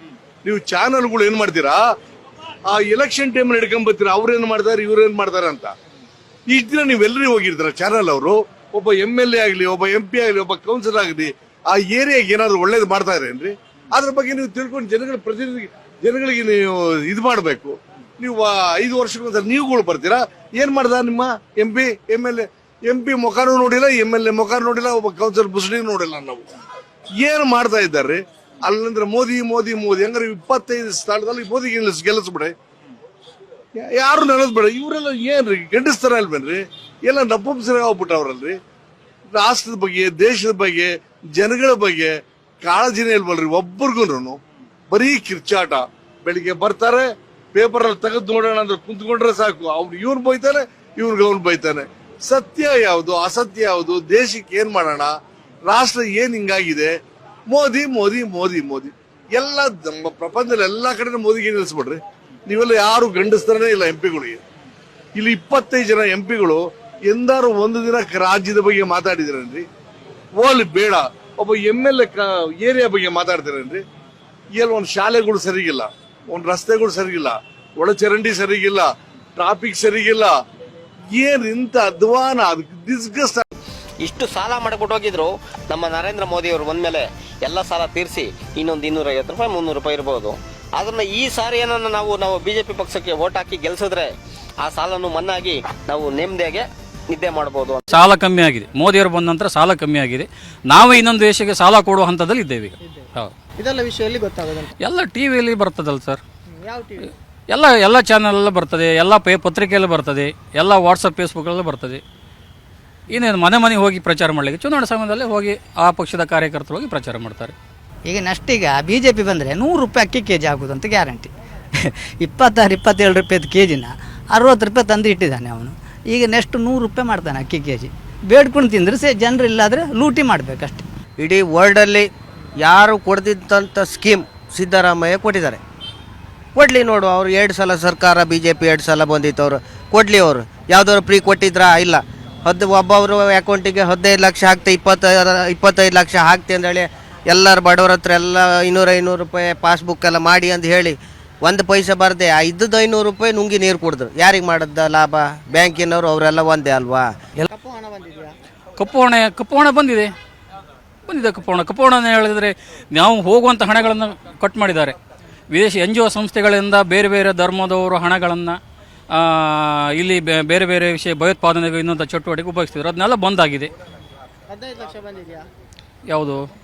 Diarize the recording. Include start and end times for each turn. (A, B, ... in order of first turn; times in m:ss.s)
0:00.4-0:01.8 A
0:02.7-0:05.7 A
0:06.5-0:26.5 A
0:27.2-0:32.5 A
0:33.8-0:38.6 A
0:39.4-0:42.1 A
0:42.6-0:44.4 A
0:44.9-0:55.1 A
0:55.7-0:56.9 A
0:57.5-1:04.4 A
1:05.2-1:09.6 A
1:10.4-1:13.8 A
1:14.6-1:20.3 A
1:21.2-1:23.4 A
1:24.0-1:34.1 B
1:34.6-1:37.8 B
1:37.9-1:43.3 C
1:43.6-1:44.7 D
1:44.8-1:46.2 C
1:46.5-1:47.1 D
1:47.5-1:52.0 C
1:53.1-1:57.5 C
1:58.1-2:10.8 E
2:11.2-2:15.6 F
2:16.5-2:37.1 F
2:37.5-2:38.3 D
2:38.8-2:40.1 C
2:41.1-2:45.0 C
2:45.5-2:48.6 C
2:49.1-2:53.7 C
2:54.5-2:55.4 D
2:56.1-2:56.5 C